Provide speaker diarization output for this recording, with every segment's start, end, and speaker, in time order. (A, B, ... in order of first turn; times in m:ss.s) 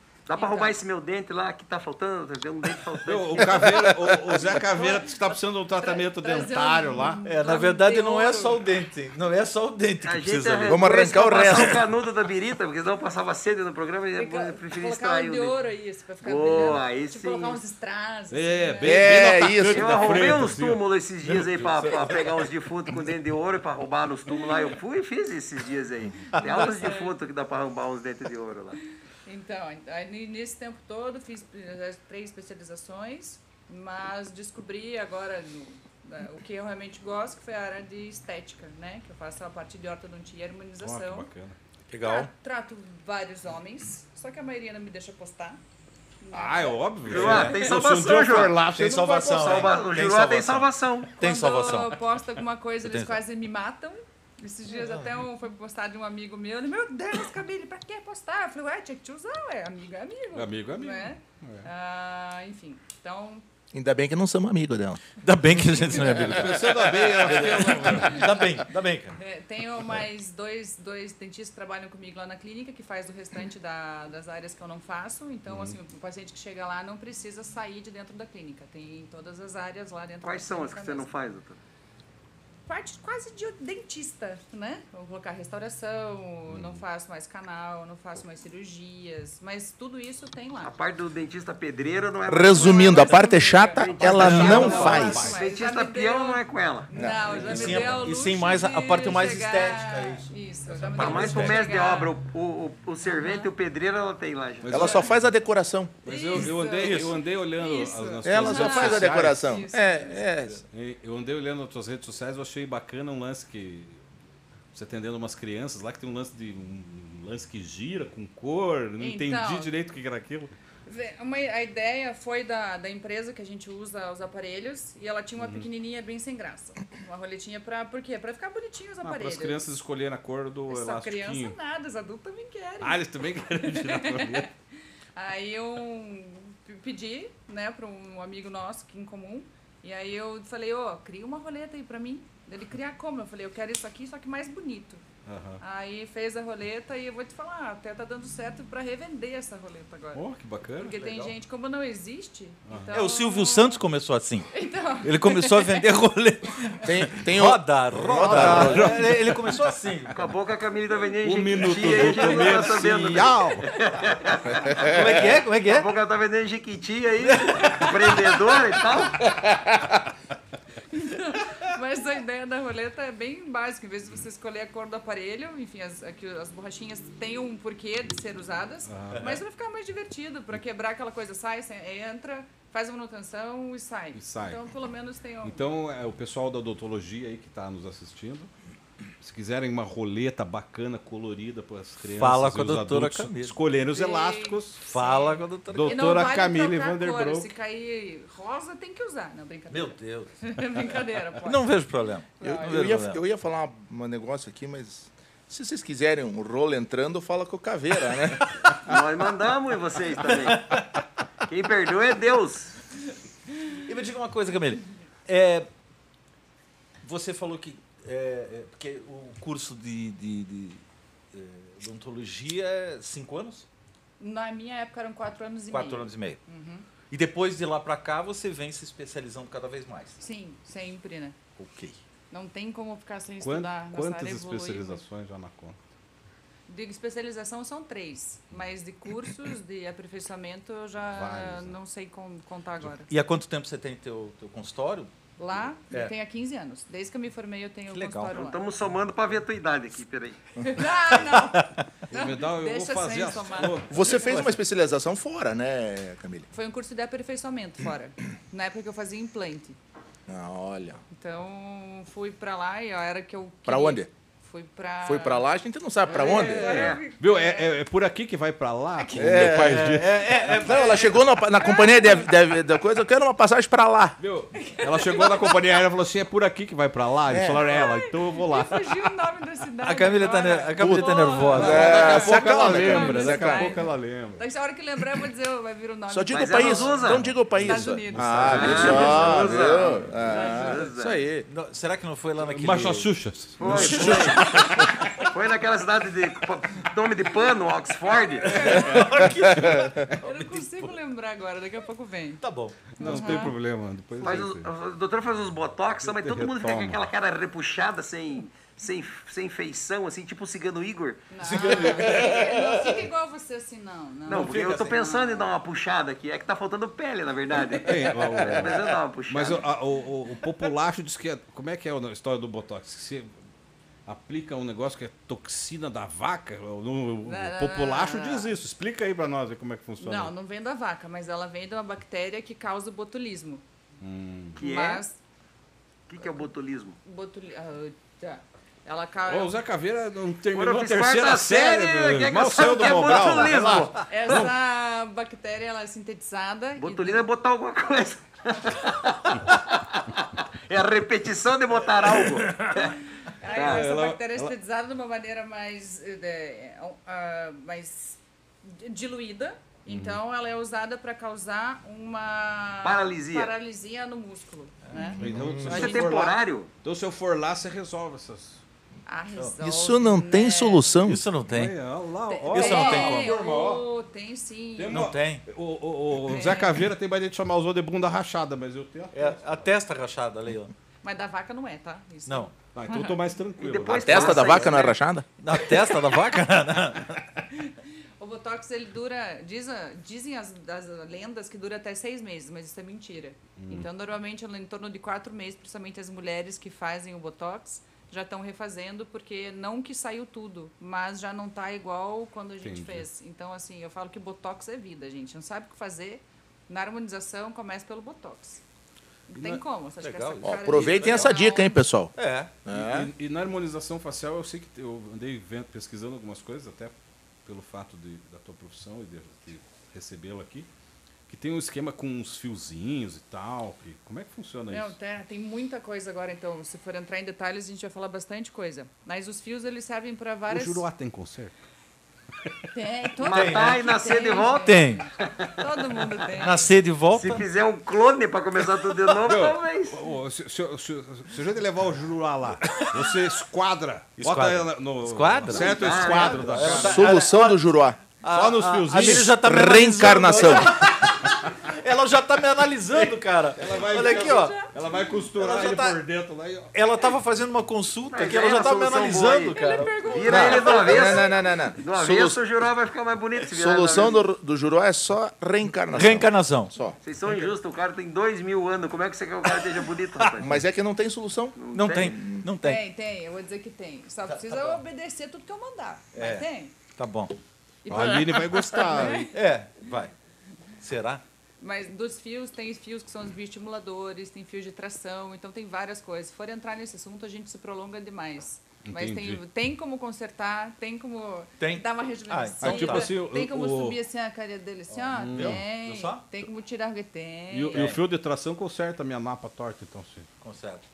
0:00.3-0:04.1 A
0:00.3-0:00.8 B
0:03.0-0:07.2 C
0:04.5-0:05.2 B
0:05.8-0:08.6 B
0:07.2-0:10.8 D
0:10.0-0:15.6 A
0:10.6-0:11.8 E
0:14.1-0:19.0 B
0:16.2-0:17.6 A
0:18.3-0:20.8 C
0:18.8-0:20.0 E
0:19.7-0:28.8 A
0:21.4-0:22.1 C
0:26.3-0:26.8 D
0:26.4-0:27.1 B
0:29.2-0:41.3 B
0:40.8-0:41.6 C
0:41.9-0:42.3 D
0:42.0-0:45.6 B
0:46.2-0:47.7 B
0:46.3-0:49.7 C
0:47.0-0:48.6 A
0:47.1-0:52.0 D
0:49.3-0:51.1 A
0:51.2-1:03.4 B
0:52.8-0:53.2 D
0:54.8-0:55.1 D
1:00.3-1:01.7 C
1:03.7-1:05.0 E
1:05.2-1:09.2 D
1:06.0-1:08.4 C
1:09.2-1:21.1 B
1:15.5-1:15.8 C
1:20.2-1:21.6 A
1:22.7-1:30.7 B
1:26.5-1:26.8 C
1:30.6-1:33.2 A
1:32.3-1:35.2 E
1:32.5-1:42.2 B
1:33.8-1:36.9 A
1:34.0-1:35.4 D
1:34.0-1:35.4 C
1:36.9-1:37.3 E
1:37.3-1:41.6 D
1:41.0-1:44.9 A
1:43.1-1:43.5 B
1:44.6-1:45.1 C
1:44.7-1:46.0 E
1:46.0-1:49.4 C
1:46.0-1:50.3 B
1:46.8-1:47.2 D
1:48.2-1:50.6 E
1:50.6-1:54.0 C
1:54.7-2:00.5 C
1:59.0-1:59.7 B
2:00.8-2:09.6 B
2:05.4-2:05.6 C
2:09.0-2:11.6 C
2:10.7-2:13.0 B
2:12.8-2:14.5 C
2:13.6-2:14.5 B
2:15.2-2:25.0 B
2:25.2-2:25.6 C
2:25.6-2:30.2 B
2:30.1-2:31.3 C
2:30.8-2:33.8 B
2:32.7-2:33.0 C
2:32.9-2:34.5 D
2:34.5-2:35.9 B
2:35.0-2:40.2 D
2:36.8-2:39.0 E
2:37.9-2:39.5 C
2:40.1-2:45.1 A
2:41.2-2:43.7 C
2:43.7-2:44.2 B
2:44.8-2:45.9 D
2:45.6-2:49.3 A
2:47.2-2:48.6 D
2:50.9-3:05.6 B
2:58.9-2:59.3 C
3:04.1-3:04.6 C
3:05.4-3:08.5 C
3:09.2-3:14.8 C
3:12.1-3:13.7 D
3:13.9-3:21.7 B
3:14.9-3:16.0 D
3:15.7-3:17.5 C
3:19.7-3:20.4 D
3:21.4-3:23.2 D
3:22.4-3:22.7 B
3:22.4-3:28.7 E
3:28.8-3:30.7 A
3:30.2-3:31.0 D
3:31.5-3:32.7 A
3:33.9-3:35.7 D
3:37.0-3:40.8 D
3:41.3-3:43.7 D
3:44.2-3:46.8 B
3:45.7-3:46.4 D
3:47.1-3:50.2 D
3:50.2-3:51.4 B
3:51.6-3:52.0 D
3:52.3-3:55.0 B
3:53.4-3:55.8 C
3:56.7-4:03.1 B
4:01.1-4:01.7 C
4:03.1-4:05.1 D
4:05.4-4:08.7 B
4:07.9-4:08.4 D
4:08.3-4:10.4 A
4:10.6-4:13.8 B
4:11.3-4:11.8 D
4:12.1-4:14.2 C
4:13.9-4:16.5 E
4:14.1-4:14.6 D
4:16.5-4:19.8 B
4:20.3-4:21.0 E
4:21.1-4:25.4 B
4:23.7-4:24.1 E
4:25.0-4:26.8 E
4:26.0-4:27.8 B
4:26.1-4:30.4 C
4:26.6-4:27.0 A
4:29.0-4:29.5 B
4:29.2-4:34.2 E
4:29.7-4:31.1 D
4:31.6-4:32.3 B
4:34.2-4:39.0 C
4:34.5-4:35.6 B
4:37.3-4:37.6 E
4:37.7-4:49.4 B
4:39.8-4:42.2 D
4:40.8-4:43.8 E
4:41.5-4:44.4 C
4:46.1-4:51.5 E
4:46.3-4:47.3 A
4:47.5-4:50.1 C
4:48.5-4:51.2 A
4:48.7-4:49.0 D
4:50.2-4:50.9 B
4:51.5-4:54.3 D
4:52.4-4:54.9 C
4:53.6-4:58.6 A
4:53.6-4:54.5 E
4:54.4-4:54.8 B
4:58.0-4:59.2 B
4:58.4-5:00.9 D
4:59.5-5:00.0 E
5:00.0-5:03.6 B
5:02.4-5:03.3 D
5:02.9-5:04.7 C
5:04.2-5:11.3 A
5:06.0-5:07.0 C
5:11.3-5:15.5 B
5:11.4-5:13.0 D
5:11.7-5:12.2 C
5:14.3-5:19.6 A
5:14.3-5:14.9 D
5:14.3-5:14.9 C
5:17.7-5:23.3 C
5:24.0-5:30.3 C
5:27.2-5:28.5 B
5:30.0-5:33.6 B
5:34.0-5:34.6 C
5:34.6-5:35.2 B
5:34.6-5:35.0 A
5:36.1-5:37.0 A
5:37.0-5:39.6 B
5:39.3-5:44.5 C
5:40.5-5:44.0 A
5:44.1-5:47.3 B
5:46.8-5:52.9 A
5:52.2-5:52.9 C
5:52.8-6:05.2 B
5:53.5-5:54.5 C
5:53.5-5:53.8 A
5:59.9-6:00.2 C
6:02.8-6:03.5 A
6:04.9-6:06.1 D
6:05.2-6:08.6 C
6:05.3-6:05.6 E
6:05.7-6:06.7 A
6:09.0-6:10.9 B
6:09.6-6:11.2 E
6:11.0-6:11.8 D
6:11.5-6:13.8 C
6:12.2-6:15.1 B
6:12.5-6:13.4 D
6:14.8-6:19.6 C
6:14.9-6:15.4 D
6:16.3-6:16.8 B
6:19.1-6:20.7 D
6:21.0-6:23.2 B
6:22.3-6:22.5 D
6:22.7-6:24.7 C
6:23.6-6:25.0 A
6:24.0-6:25.3 E
6:25.4-6:27.3 D
6:27.5-6:48.6 B
6:33.6-6:33.9 C
6:42.6-6:43.0 C
6:49.3-6:51.8 B
6:49.4-6:51.4 D
6:50.4-6:52.1 E
6:52.1-6:52.6 D
6:52.6-6:53.1 E
6:52.7-7:00.7 C
7:01.3-7:05.0 C
7:04.7-7:10.9 B
7:10.5-7:11.5 C
7:12.7-7:16.8 B
7:13.2-7:15.6 A
7:13.2-7:13.9 D
7:14.5-7:15.0 D
7:16.4-7:17.4 D
7:17.1-7:20.0 A
7:19.2-7:27.2 C
7:24.2-7:27.6 D
7:25.6-7:26.6 A
7:26.6-7:28.0 E
7:28.2-7:34.7 D
7:28.3-7:29.4 C
7:28.9-7:30.8 E
7:33.6-7:36.7 C
7:34.0-7:34.7 B
7:35.3-7:36.0 D
7:36.7-7:41.2 D
7:38.1-7:44.2 A
7:39.5-7:41.5 B
7:40.3-7:42.4 E
7:43.5-7:47.0 E
7:45.8-7:46.7 D
7:47.0-7:50.5 A
7:47.2-7:47.6 D
7:49.5-7:50.4 D
7:50.4-7:52.5 E
7:51.5-7:52.2 A
7:51.7-7:52.8 D
7:52.6-7:56.7 B
7:54.3-7:54.8 D
7:56.1-7:57.3 D
7:57.8-7:59.3 B
7:57.9-7:59.3 C
7:59.3-8:00.1 D
8:00.8-8:01.2 D
8:01.6-8:17.9 B
8:08.8-8:09.4 C
8:11.6-8:13.1 D
8:12.6-8:14.0 C
8:14.9-8:16.2 D
8:15.1-8:15.6 C
8:17.5-8:20.3 C
8:17.7-8:18.0 D
8:20.4-8:20.8 D